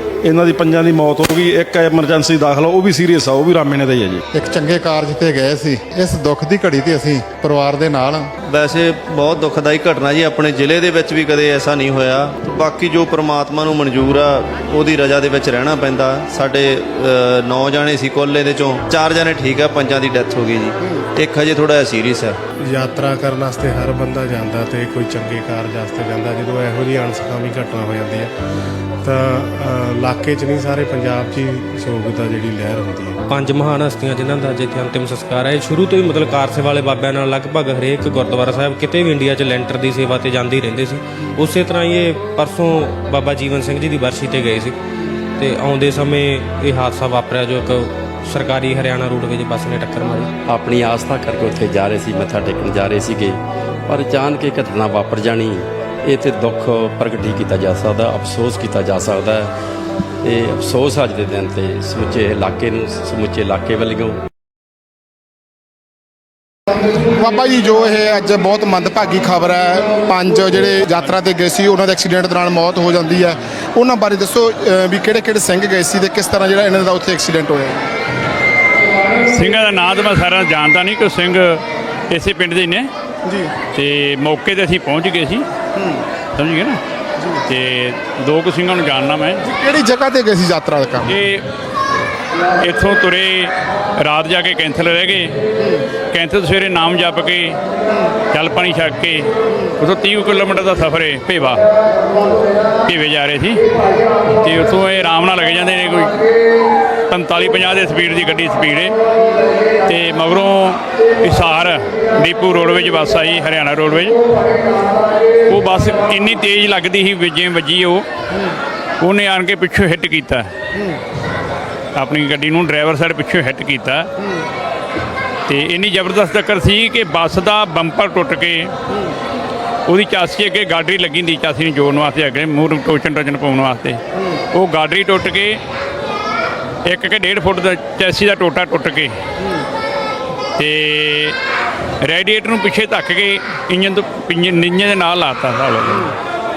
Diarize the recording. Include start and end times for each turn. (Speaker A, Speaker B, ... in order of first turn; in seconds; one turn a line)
Speaker A: 0.2-4.2
Speaker B: 4.4-8.2
Speaker C: 8.4-22.4
Speaker D: 22.7-28.3
Speaker D: 29.0-33.2
Speaker E: 33.3-44.8
Speaker E: 45.4-50.3
Speaker F: 50.5-59.5
Speaker F: 60.2-64.2
Speaker B: 67.1-77.8
Speaker G: 79.3-82.9
Speaker B: 83.2-83.5
Speaker G: 83.8-85.5
Speaker G: 86.3-86.8
Speaker G: 87.5-89.5
Speaker B: 89.5-91.1
Speaker G: 91.0-91.4
Speaker G: 92.6-95.3
Speaker G: 96.1-97.6
Speaker G: 98.3-99.3
Speaker G: 99.8-101.6
Speaker G: 102.9-103.6
Speaker G: 104.3-106.2
Speaker G: 107.1-108.9
Speaker G: 109.9-114.2
Speaker G: 115.5-118.1
Speaker G: 119.0-120.5
Speaker G: 122.0-124.1
Speaker G: 125.5-128.7
Speaker G: 129.9-134.0
Speaker G: 134.5-135.6
Speaker G: 136.8-139.1
Speaker G: 140.6-141.4
Speaker G: 142.0-146.2